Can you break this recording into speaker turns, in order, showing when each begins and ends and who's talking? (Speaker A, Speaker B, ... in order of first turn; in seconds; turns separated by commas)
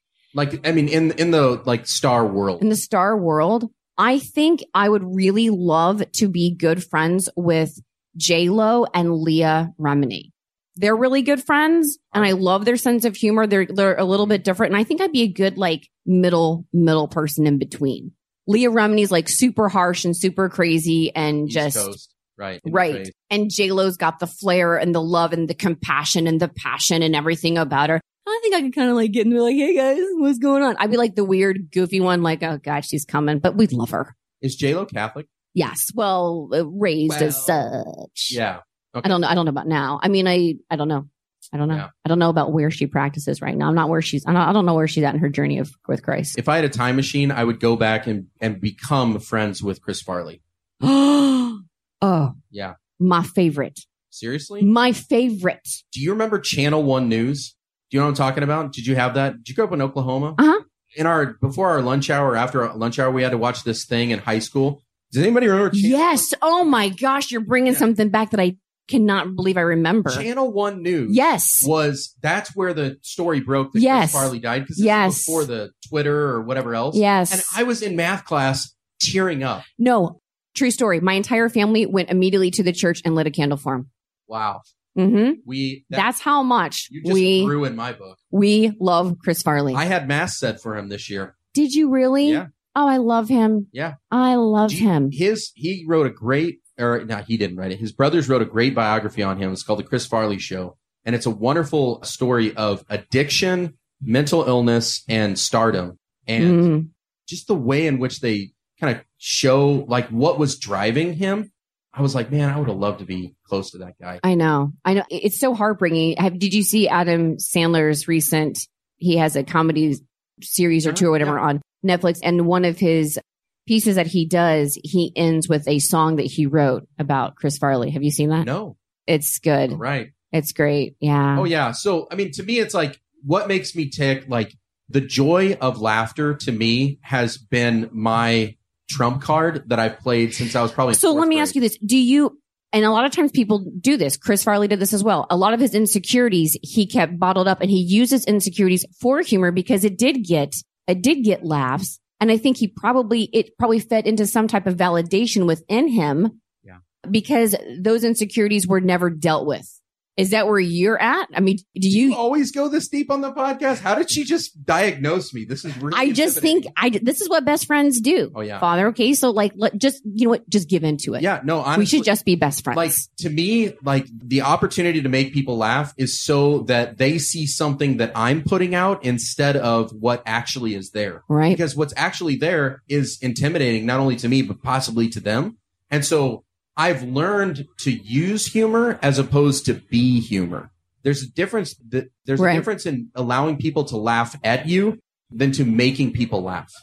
Speaker A: 0.3-2.6, Speaker B: 2.6-21.9, Speaker A: 21.4-23.1, Speaker B: 22.6-34.1, Speaker A: 34.4-35.3, Speaker B: 35.5-38.4, Speaker A: 37.1-37.6, Speaker A: 38.3-39.2, Speaker B: 39.0-46.4, Speaker A: 46.4-50.4, Speaker B: 50.8-52.4, Speaker B: 53.0-53.9, Speaker A: 54.1-54.7, Speaker B: 54.6-55.8, Speaker A: 55.9-60.4, Speaker A: 61.0-66.3, Speaker B: 65.7-70.3, Speaker A: 70.1-79.6, Speaker B: 71.1-71.7, Speaker B: 73.7-75.5, Speaker B: 76.9-77.6, Speaker B: 79.8-83.9, Speaker A: 84.3-84.6, Speaker B: 85.0-87.5, Speaker A: 85.4-86.1, Speaker A: 86.9-88.2, Speaker B: 88.3-89.8, Speaker A: 89.7-91.3, Speaker B: 91.5-95.1, Speaker A: 92.2-92.5, Speaker A: 94.7-106.7, Speaker B: 106.4-106.9, Speaker A: 107.3-114.2, Speaker B: 114.2-128.5, Speaker A: 120.8-121.4, Speaker A: 128.4-128.8, Speaker B: 129.1-129.8, Speaker A: 129.7-130.1, Speaker B: 130.3-131.5, Speaker A: 131.3-141.5, Speaker B: 140.9-156.4, Speaker B: 157.0-162.2, Speaker A: 161.9-166.7, Speaker B: 165.9-173.0, Speaker A: 168.3-168.6, Speaker A: 171.2-172.1, Speaker A: 172.7-196.7, Speaker B: 181.3-181.6, Speaker B: 192.4-192.6